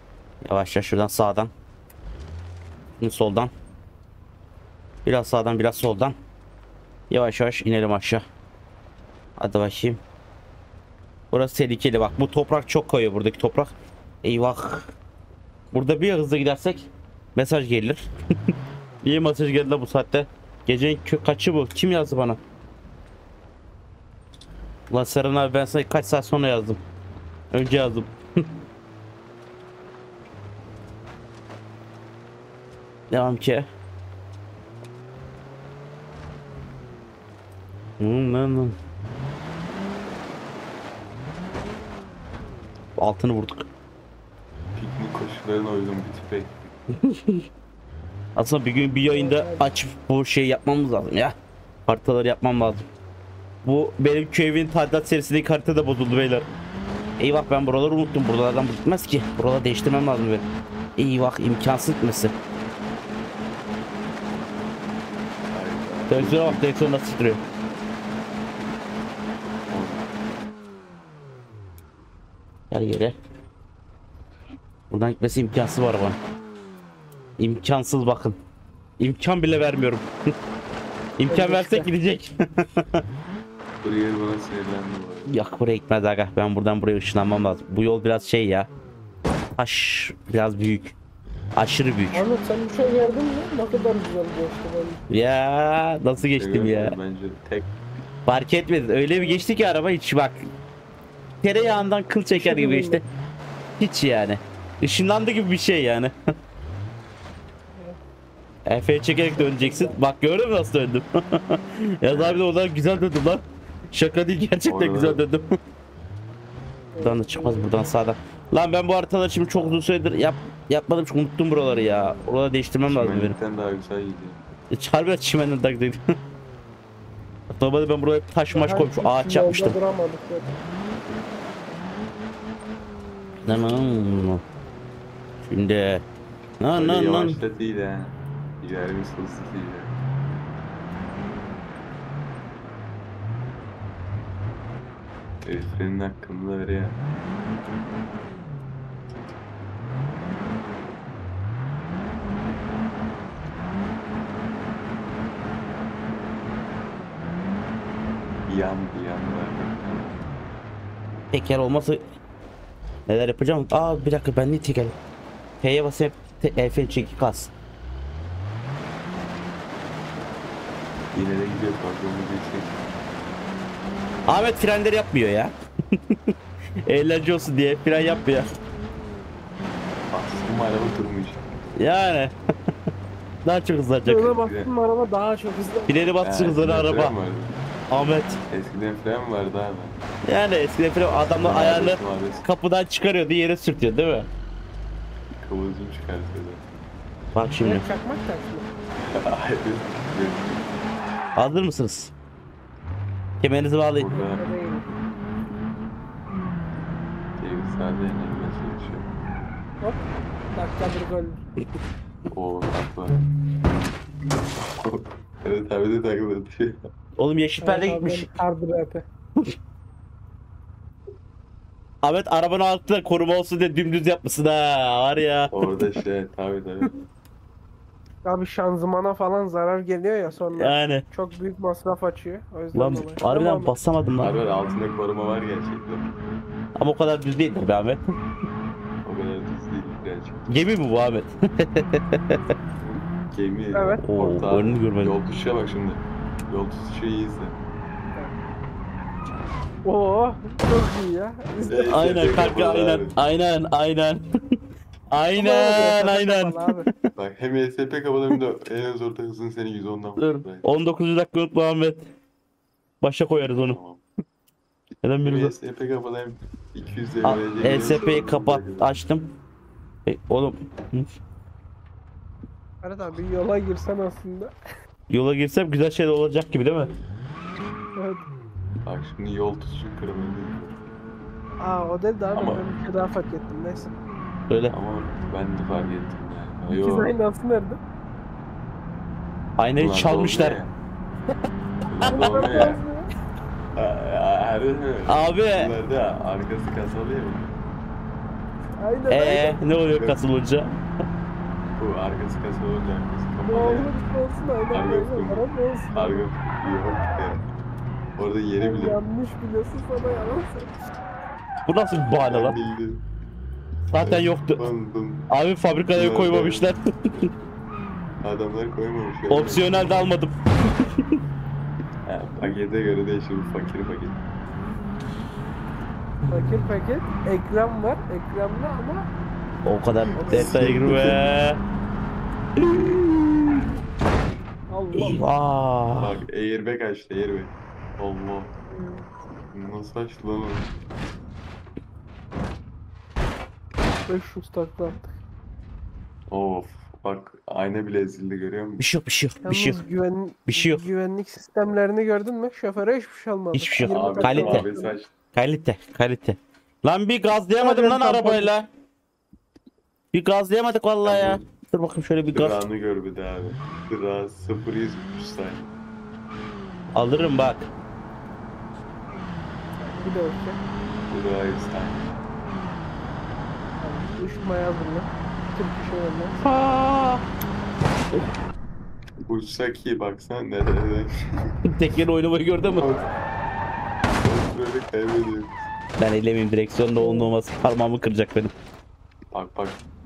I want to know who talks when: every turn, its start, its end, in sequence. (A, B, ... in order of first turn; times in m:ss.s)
0:00.4-0:01.5 A
0:03.0-0:03.5 A
0:05.0-0:06.2 A
0:07.1-0:08.2 A
0:09.4-0:10.0 A
0:11.3-0:14.9 A
0:15.7-0:22.4 A
0:24.9-0:26.8 A
0:27.5-0:28.5 A
0:33.1-0:33.7 A
0:38.0-0:38.8 A
0:43.0-0:43.7 A
0:44.8-0:46.7 B
0:46.9-0:47.5 A
0:48.4-0:51.4 A
0:49.1-0:49.7 C
0:51.9-0:52.9 A
0:53.6-0:56.5 A
0:57.2-1:00.5 A
1:01.0-1:02.3 A
1:05.5-1:06.7 B
1:06.1-1:07.4 A
1:09.7-1:10.1 B
1:12.7-1:13.2 A
1:14.9-1:16.2 A
1:17.4-1:18.4 A
1:19.0-1:20.1 A
1:21.2-1:23.0 A
1:21.3-1:21.9 C
1:23.8-1:25.4 B
1:25.3-1:28.7 A
1:29.6-1:31.0 A
1:31.6-1:32.2 A
1:32.1-1:35.0 C
1:35.1-1:37.0 A
1:36.2-1:37.7 B
1:38.3-1:40.4 A
1:39.2-1:39.4 C
1:41.4-1:43.0 A
1:42.3-1:43.0 C
1:43.8-1:46.1 A
1:48.7-1:55.6 A
1:49.3-1:50.0 C
1:52.1-1:52.6 B
1:54.6-1:55.2 B
1:56.9-1:57.9 C
1:57.0-2:03.4 A
1:59.5-1:59.8 B
2:02.9-2:04.4 B
2:04.7-2:06.0 A
2:07.5-2:09.8 A
2:08.5-2:10.5 C
2:13.5-2:14.4 A
2:15.4-2:16.0 A
2:16.6-2:17.4 A
2:16.7-2:19.9 B
2:25.4-2:27.0 B
2:38.5-2:40.2 B
2:41.3-2:42.0 A
2:43.1-2:45.0 A
2:45.6-2:47.5 A
2:51.1-2:52.8 B
2:54.3-2:56.3 A
2:56.9-2:58.5 A
3:00.1-3:01.5 B
3:01.8-3:02.3 A
3:03.4-3:04.4 A
3:04.0-3:06.2 C
3:04.2-3:04.7 B
3:05.9-3:07.1 A
3:06.2-3:07.6 B
3:07.9-3:08.4 A
3:08.5-3:10.0 B
3:10.3-3:14.3 A
3:11.3-3:12.4 B
3:15.4-3:16.7 B
3:17.3-3:17.8 A
3:17.6-3:18.7 C
3:19.0-3:20.7 B
3:21.4-3:22.1 A
3:23.4-3:24.1 A
3:24.0-3:24.9 B
3:24.1-3:24.9 C
3:27.4-3:29.1 B
3:29.8-3:31.4 C
3:32.3-3:33.2 B
3:34.8-3:36.9 B
3:37.2-3:38.3 A
3:37.6-3:39.1 C
3:42.0-3:45.5 A
3:45.5-3:46.9 B
3:48.2-3:53.7 C
3:50.6-3:51.0 A
3:52.7-3:54.3 A
3:54.2-3:56.4 B
3:56.8-3:58.0 A
3:59.0-4:00.6 B
4:00.5-4:02.4 A
4:02.8-4:07.6 B
4:03.7-4:04.0 C
4:04.0-4:05.2 A
4:09.8-4:12.0 C
4:11.7-4:13.2 B
4:11.9-4:14.6 A
4:15.1-4:16.7 A
4:15.4-4:16.9 C
4:17.2-4:20.6 B
4:20.2-4:22.0 A
4:23.0-4:23.8 A
4:23.5-4:24.0 B
4:25.0-4:25.5 A
4:25.2-4:29.0 B
4:27.2-4:29.3 A
4:30.1-4:31.1 A
4:32.8-4:34.5 C
4:35.1-4:36.9 A
4:38.0-4:38.2 C
4:38.8-4:40.8 B
4:41.6-4:43.9 C
4:42.3-4:42.6 B
4:44.7-4:47.1 B
4:46.7-4:47.8 C
4:49.6-4:50.6 A
4:49.8-4:50.7 B
4:51.9-4:52.8 B
4:52.0-4:52.6 A
4:52.0-4:53.1 C
4:53.8-4:57.6 B
4:55.1-4:55.7 A
4:58.8-4:59.6 C
4:59.1-5:00.7 A
4:59.9-5:00.2 B
5:01.8-5:03.9 B
5:03.5-5:06.2 C
5:04.7-5:07.4 B
5:08.2-5:09.0 B
5:08.6-5:10.7 C
5:11.7-5:12.6 A
5:12.0-5:13.0 B
5:13.9-5:14.6 A
5:14.0-5:15.3 B
5:15.3-5:17.2 A
5:16.0-5:16.7 B
5:18.2-5:20.1 B
5:19.3-5:21.2 A
5:22.1-5:24.2 B
5:26.3-5:29.1 C
5:29.6-5:31.6 A
5:30.0-5:31.2 B
5:30.2-5:30.5 C
5:32.6-5:33.6 A
5:34.7-5:35.2 C
5:34.9-5:36.1 A
5:36.0-5:38.5 B
5:38.7-5:39.1 C
5:39.5-5:40.7 B
5:44.1-5:45.0 C
5:46.3-5:48.8 B
5:48.8-5:49.8 A
5:49.4-5:55.0 C
5:50.5-5:50.8 A
5:53.5-5:54.6 A
5:53.8-5:55.1 B
5:55.3-5:58.7 A
5:57.6-5:58.5 C
6:00.1-6:02.6 A
6:01.0-6:01.4 B
6:02.3-6:05.7 B
6:07.0-6:07.7 A
6:09.8-6:10.6 C
6:11.1-6:12.2 B
6:13.8-6:16.4 C
6:16.4-6:17.2 A
6:19.3-6:21.6 B
6:21.7-6:22.9 A
6:22.7-6:23.1 B
6:24.2-6:25.6 B
6:26.0-6:28.5 A
6:27.0-6:27.3 C
6:29.3-6:29.8 B